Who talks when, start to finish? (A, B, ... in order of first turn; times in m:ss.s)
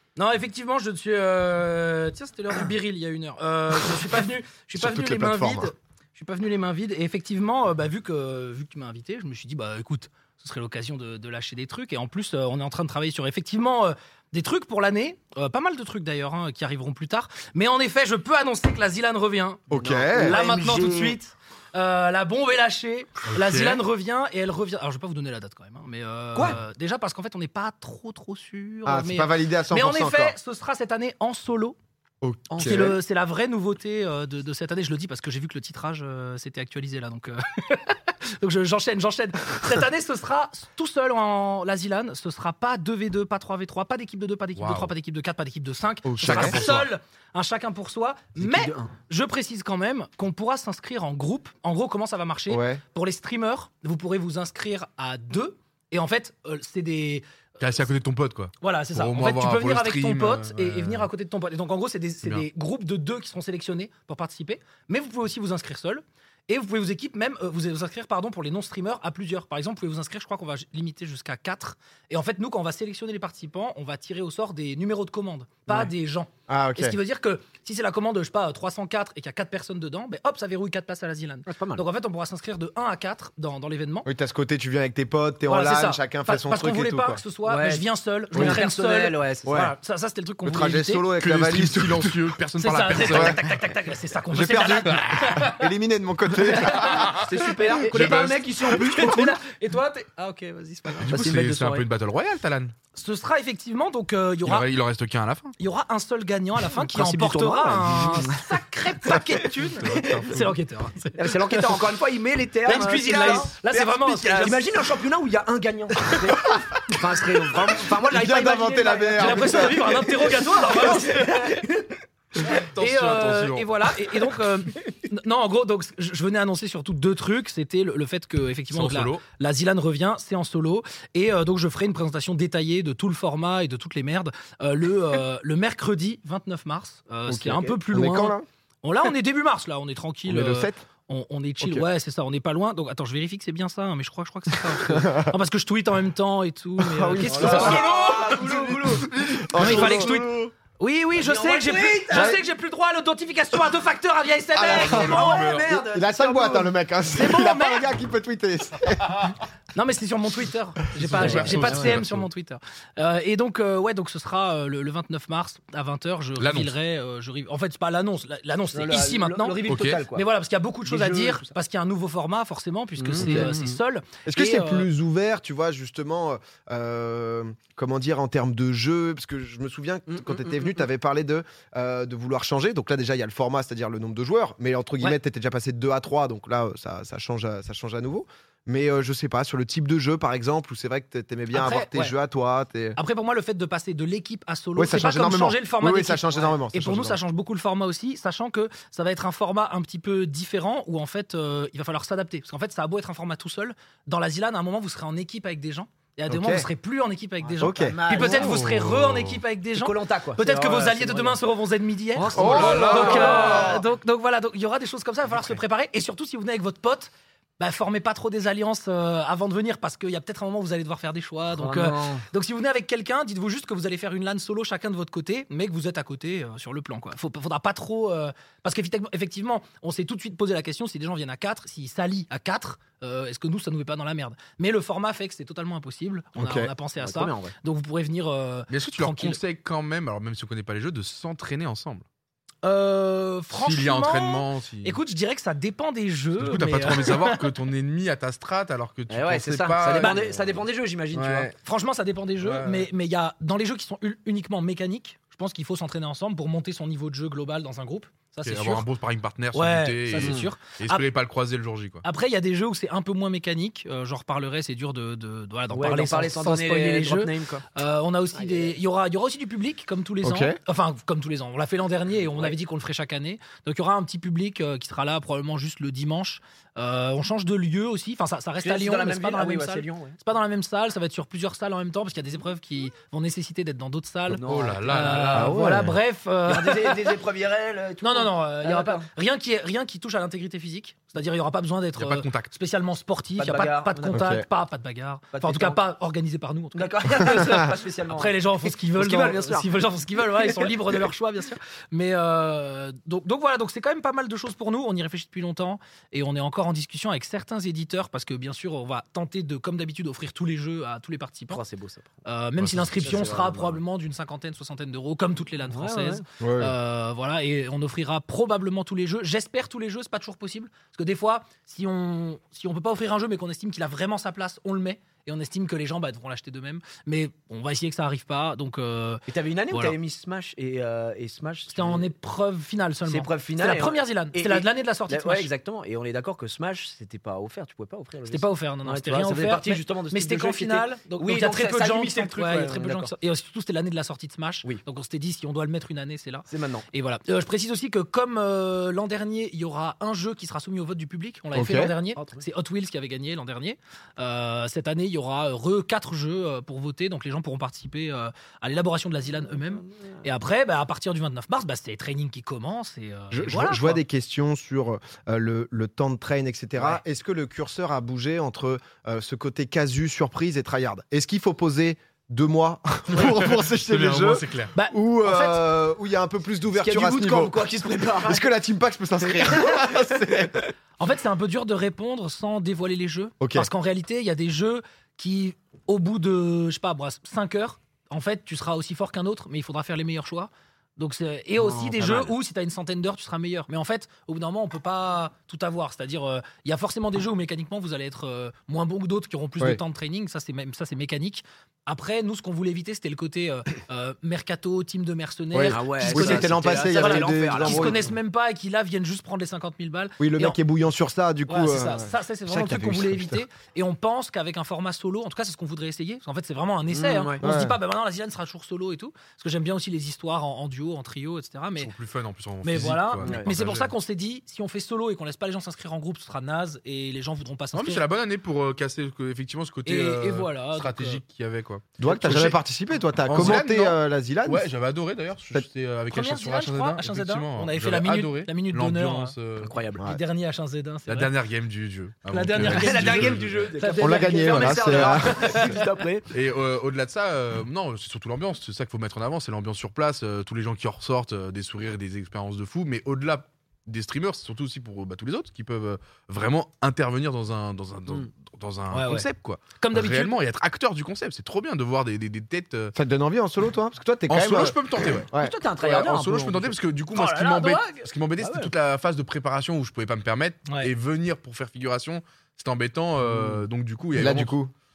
0:00.2-0:31.8 A
0:04.8-0:05.7 B
0:19.7-0:20.4 B
0:19.7-0:21.2 C
0:23.3-0:23.8 D
0:28.8-0:30.4 B
0:32.2-0:33.0 B
0:32.6-0:32.9 C
0:32.6-0:57.2 A
0:44.6-0:44.9 D
0:46.0-0:46.8 B
0:46.2-0:46.9 D
0:48.4-0:48.9 C
0:52.5-0:52.8 B
0:57.6-1:01.1 D
0:58.6-1:24.1 A
1:16.5-1:17.0 B
1:21.5-1:21.8 C
1:24.1-1:27.2 B
1:25.5-1:31.1 A
1:27.4-1:29.7 C
1:28.3-1:28.6 B
1:29.5-1:29.8 B
1:30.4-1:32.2 B
1:31.2-1:33.4 D
1:32.6-1:35.7 A
1:33.0-1:33.5 B
1:34.3-1:37.1 B
1:36.4-1:41.2 A
1:36.8-1:38.4 D
1:37.1-1:39.3 C
1:41.0-1:42.7 D
1:41.1-1:41.8 C
1:43.0-1:44.7 A
1:44.4-1:45.6 D
1:45.6-1:51.8 A
1:46.7-1:48.5 C
1:49.5-1:50.6 D
1:51.2-2:02.0 C
1:52.6-1:54.8 A
1:57.6-2:00.1 B
1:59.2-2:01.5 A
2:02.4-2:03.9 D
2:02.5-2:28.2 A
2:08.7-2:09.2 D
2:17.3-2:18.4 B
2:17.4-2:17.8 C
2:20.3-2:20.8 B
2:21.6-2:21.9 B
2:24.8-2:25.4 B
2:26.8-2:30.5 B
2:27.3-2:30.1 C
2:27.4-2:28.7 D
2:29.5-2:35.5 A
2:31.2-2:32.4 C
2:32.1-2:32.4 B
2:34.6-2:39.3 B
2:34.7-2:35.7 D
2:34.7-2:36.7 C
2:37.1-2:37.9 A
2:39.8-2:54.9 A
2:41.0-2:42.3 D
2:41.2-2:42.0 C
2:41.2-2:41.8 B
2:46.4-2:46.7 D
2:48.7-2:50.3 C
2:49.7-2:50.0 D
2:50.8-2:51.5 C
2:53.0-2:53.8 C
2:53.2-2:53.5 B
2:54.3-3:13.0 B
3:00.1-3:00.8 C
3:11.5-3:12.1 A
3:13.0-3:59.4 A
3:14.8-3:17.2 B
3:26.3-3:26.7 B
3:27.6-3:28.4 B
3:27.6-3:28.7 C
3:28.3-3:29.4 D
3:29.8-3:31.4 C
3:32.2-3:33.8 C
3:32.3-3:33.8 B
3:32.4-3:33.8 D
3:41.5-3:42.2 C
3:56.4-3:56.7 B
3:57.0-3:57.5 C
3:58.7-4:02.0 D
4:02.6-4:07.4 A
4:03.5-4:05.0 D
4:06.4-4:10.3 D
4:09.1-4:11.5 C
4:10.0-4:10.3 A
4:11.1-4:11.5 D
4:11.6-4:18.9 A
4:12.4-4:12.9 D
4:18.4-4:22.0 D
4:19.5-4:21.0 A
4:20.2-4:20.5 C
4:22.0-4:47.1 A
4:25.7-4:27.7 C
4:28.4-4:28.8 C
4:30.2-4:30.6 B
4:38.6-4:40.2 C
4:44.3-4:45.8 C
4:44.4-4:45.5 D
4:45.3-4:46.0 B
4:46.5-4:49.1 C
4:48.0-5:11.6 A
4:52.0-4:52.5 D
4:53.4-4:54.3 C
4:54.1-4:54.4 B
4:55.3-4:55.8 C
4:56.8-4:59.7 C
5:00.4-5:00.7 C
5:11.5-5:12.1 C
5:12.2-5:30.0 A
5:12.6-5:13.0 D
5:13.0-5:13.8 C
5:15.7-5:16.2 C
5:16.4-5:16.7 B
5:29.3-5:32.1 C
5:31.7-5:35.5 A
5:33.1-5:43.1 C
5:38.3-6:04.0 A
5:46.5-5:46.9 C
5:51.5-5:52.0 B
6:03.3-6:17.6 B
6:13.1-6:14.7 D
6:14.7-6:15.6 A
6:16.7-6:18.4 C
6:18.2-6:20.7 B
6:19.3-6:20.5 C
6:21.0-6:50.6 A
6:23.4-6:23.7 B
6:31.6-6:32.3 C
6:45.5-6:48.1 B
6:45.7-6:48.1 C
6:50.2-6:53.4 B
6:51.5-7:01.9 A
6:56.9-6:57.4 C
6:57.4-6:57.8 B
7:01.8-7:03.9 D
7:02.6-7:08.0 A
7:03.2-7:03.5 C
7:07.7-7:12.6 D
7:09.9-7:11.2 A
7:12.0-7:14.7 B
7:13.2-7:19.7 D
7:16.1-7:19.4 A
7:19.6-7:20.0 C
7:20.0-7:21.3 A
7:21.1-7:23.8 D
7:22.3-7:25.8 A
7:22.6-7:26.3 C
7:24.0-7:25.7 B
7:26.3-7:43.0 D
7:38.9-7:39.3 A
7:39.8-7:40.3 A
7:43.0-7:45.6 B
7:44.3-7:54.6 D
7:45.3-7:46.8 C
7:47.1-7:48.1 A
7:48.4-7:48.7 C
7:53.3-7:53.6 B
7:54.1-7:54.7 B